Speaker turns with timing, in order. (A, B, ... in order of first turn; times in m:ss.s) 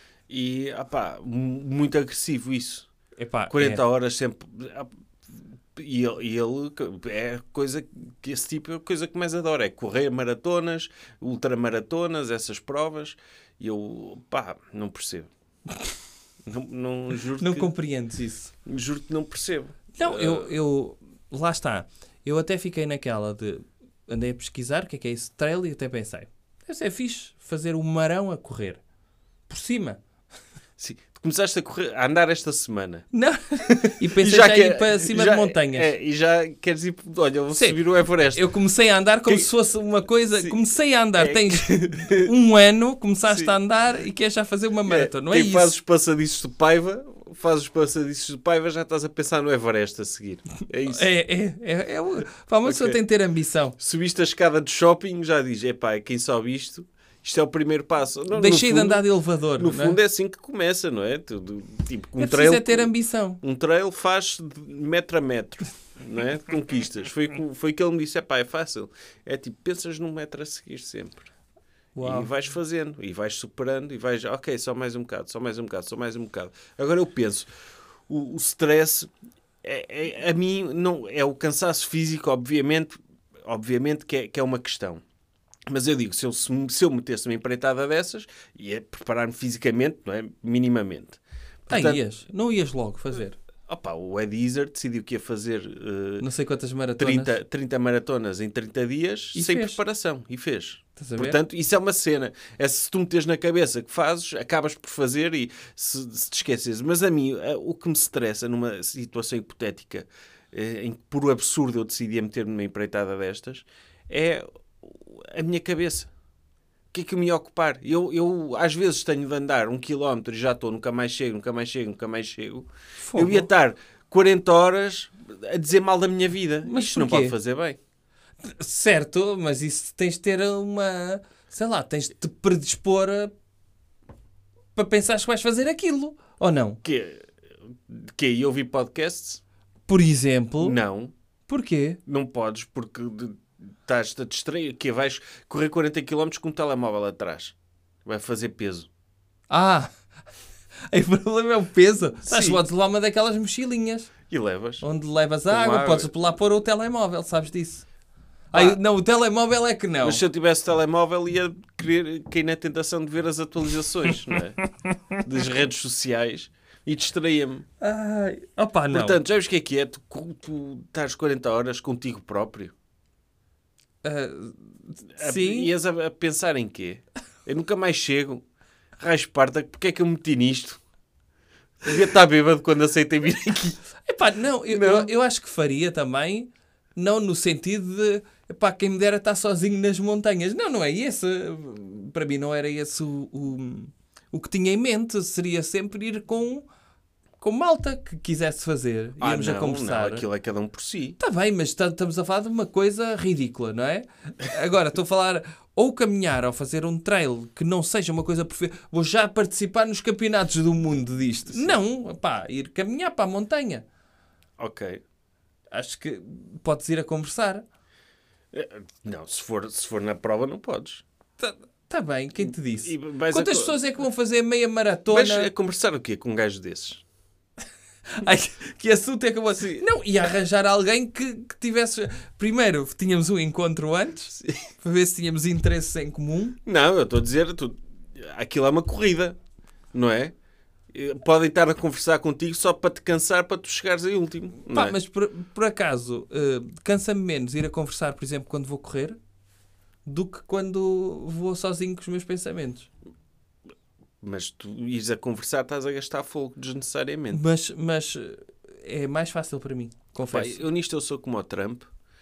0:00.3-0:02.9 A
0:03.2-0:03.8 B
0:03.5-0:15.3 A
0:16.5-0:17.7 A
0:17.4-0:18.5 B
0:18.7-0:20.5 A
0:20.0-0:28.8 B
0:29.5-0:30.0 B
0:30.8-0:33.1 A
0:33.1-0:35.9 B
0:33.8-0:38.4 A
0:37.5-0:45.8 B
0:40.3-0:40.6 A
0:41.2-0:42.3 A
0:43.3-0:43.5 A
0:44.9-0:51.1 A
0:50.9-0:53.8 B
0:52.6-0:53.0 A
0:53.8-0:59.1 A
0:58.3-1:00.0 B
0:59.6-1:11.2 A
1:02.2-1:03.4 B
1:11.9-1:12.3 B
1:12.0-1:17.5 A
1:18.1-1:19.1 A
1:19.6-1:25.0 A
1:25.7-1:32.0 A
1:31.7-1:33.4 B
1:33.7-1:36.2 A
1:36.2-1:37.4 B
1:37.0-1:56.1 A
1:39.4-1:39.8 B
1:41.0-1:41.4 B
1:56.9-2:07.8 A
2:03.0-2:03.5 B
2:06.6-2:07.4 B
2:08.4-2:13.3 B
2:14.8-2:16.8 B
2:16.8-2:19.4 A
2:19.9-2:20.8 B
2:20.6-2:21.1 A
2:21.5-2:22.0 B
2:22.1-2:27.5 A
2:28.1-2:28.9 A
2:29.5-2:29.9 B
2:30.9-2:34.1 B
2:32.2-2:32.6 A
2:34.3-2:34.8 A
2:34.8-2:37.9 B
2:35.5-2:36.1 A
2:38.5-2:38.8 A
2:38.5-2:40.2 B
2:40.0-2:44.6 A
2:44.9-2:45.2 B
2:45.2-2:47.6 A
2:47.8-2:49.2 B
2:48.9-2:52.7 A
2:54.0-2:55.7 B
2:55.2-2:58.4 A
2:59.0-3:00.8 A
3:01.8-3:03.8 A
3:04.0-3:16.7 B
3:04.7-3:05.1 A
3:17.4-3:20.3 B
3:19.2-3:21.2 A
3:21.2-3:33.9 B
3:31.5-3:31.8 A
3:34.6-3:35.0 A
3:35.7-3:37.6 B
3:38.5-3:41.0 A
3:41.4-3:45.5 B
3:42.4-3:43.8 A
3:45.1-3:47.0 A
3:48.2-3:56.6 B
3:56.6-3:59.4 A
3:59.9-4:00.3 A
4:00.9-4:05.0 A
4:04.6-4:09.2 B
4:10.1-4:12.9 B
4:14.2-4:17.4 A
4:17.3-4:20.6 B
4:20.2-4:21.9 A